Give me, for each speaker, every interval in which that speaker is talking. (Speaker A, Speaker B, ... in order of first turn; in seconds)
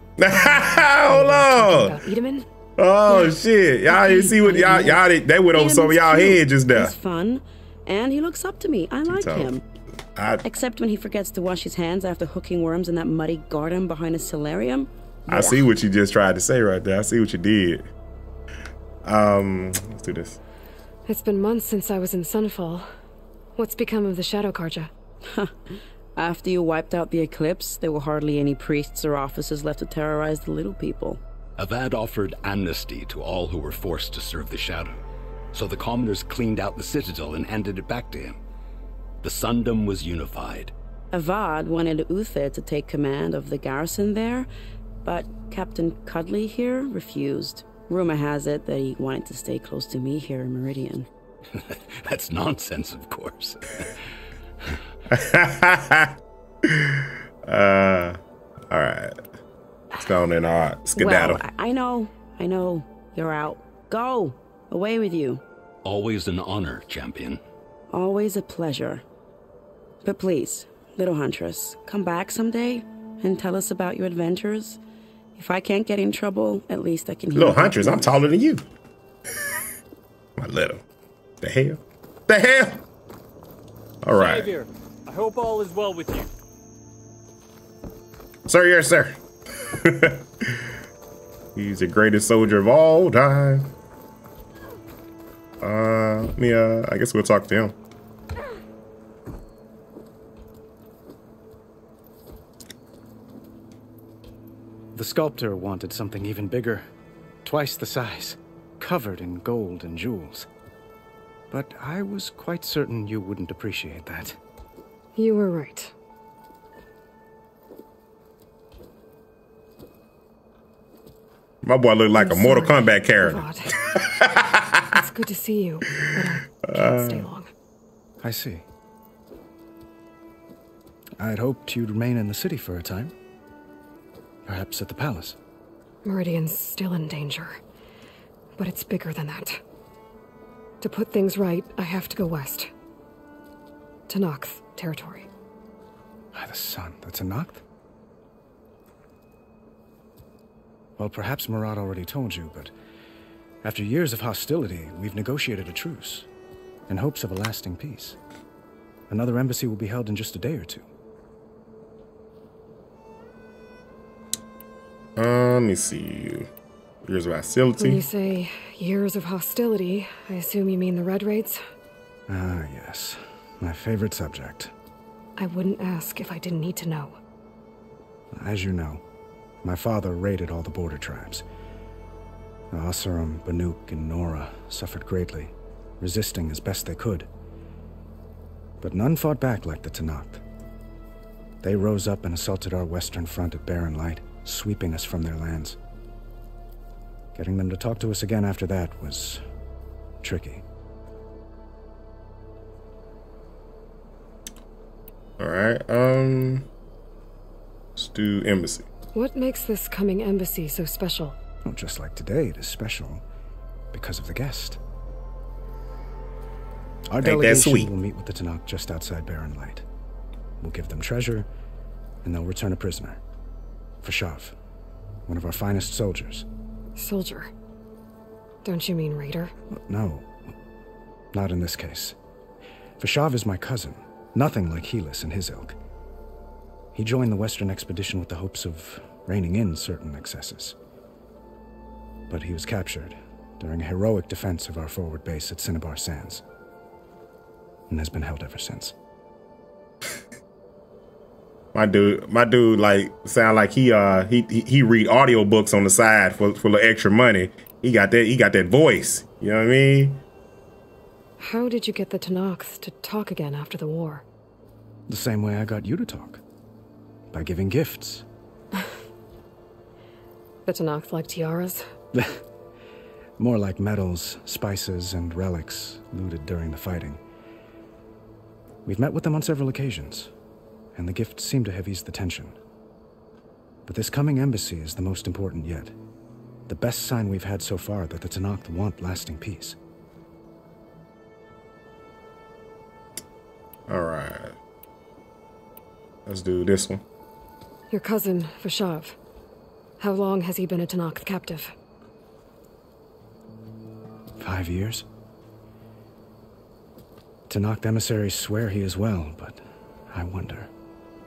Speaker A: 0.2-2.0, 2.8-6.9, 9.1-9.5, 10.2-10.4, 15.3-17.9, 19.0-20.4, 55.1-58.2, 58.7-59.2, 60.0-61.4, 77.3-78.6, 80.4-80.8, 81.4-82.8, 84.0-84.5, 88.5-89.2, 89.7-90.6, 91.5-93.7, 95.6-97.7, 121.6-124.9, 126.6-127.3, 165.2-166.5, 167.0-168.0, 205.4-206.7, 208.0-208.8, 217.2-217.9, 251.7-260.2, 293.9-294.5, 296.2-297.0
Speaker B: 0.3-2.5, 21.1-22.9, 23.6-24.9, 115.1-115.9, 122.1-123.7, 124.9-127.5, 136.0-137.6, 138.6-139.6, 140.8-142.7, 144.1-145.3, 167.8-171.6, 175.4-177.2, 209.1-211.4, 226.9-227.5, 228.6-229.5, 261.4-264.2, 270.6-271.8, 297.9-299.2, 300.0-301.7
Speaker C: 4.0-9.6, 10.4-15.7, 25.3-31.2, 41.1-44.5, 45.0-51.1, 61.0-65.4, 67.9-69.0, 70.0-74.8, 75.4-78.2
Speaker D: 31.6-35.0, 35.5-38.4, 39.2-40.7, 51.6-53.9, 65.8-67.4
Speaker E: 84.1-86.3
Speaker F: 104.9-106.8, 107.4-110.5, 111.5-114.4, 128.2-128.6, 131.2-133.1, 134.4-135.3, 146.3-147.6, 151.0-152.7, 153.6-156.3, 156.9-158.2, 159.1-160.8, 172.3-174.7, 178.3-179.0, 179.6-181.4, 182.7-187.3, 188.8-190.4, 191.6-195.8, 197.3-199.4, 200.2-200.6, 211.6-213.2, 213.9-214.8, 217.1-219.8, 220.6-221.5, 222.2-223.2, 224.0-224.6, 225.3-226.4, 229.7-230.4, 231.3-232.2, 233.0-235.8, 236.9-240.8, 242.3-246.4, 247.9-248.9, 265.1-266.4, 267.3-268.2, 272.1-272.4, 273.4-277.2, 278.8-280.3, 280.9-282.6, 283.9-285.9, 286.7-289.8, 304.4-305.0, 307.5-310.7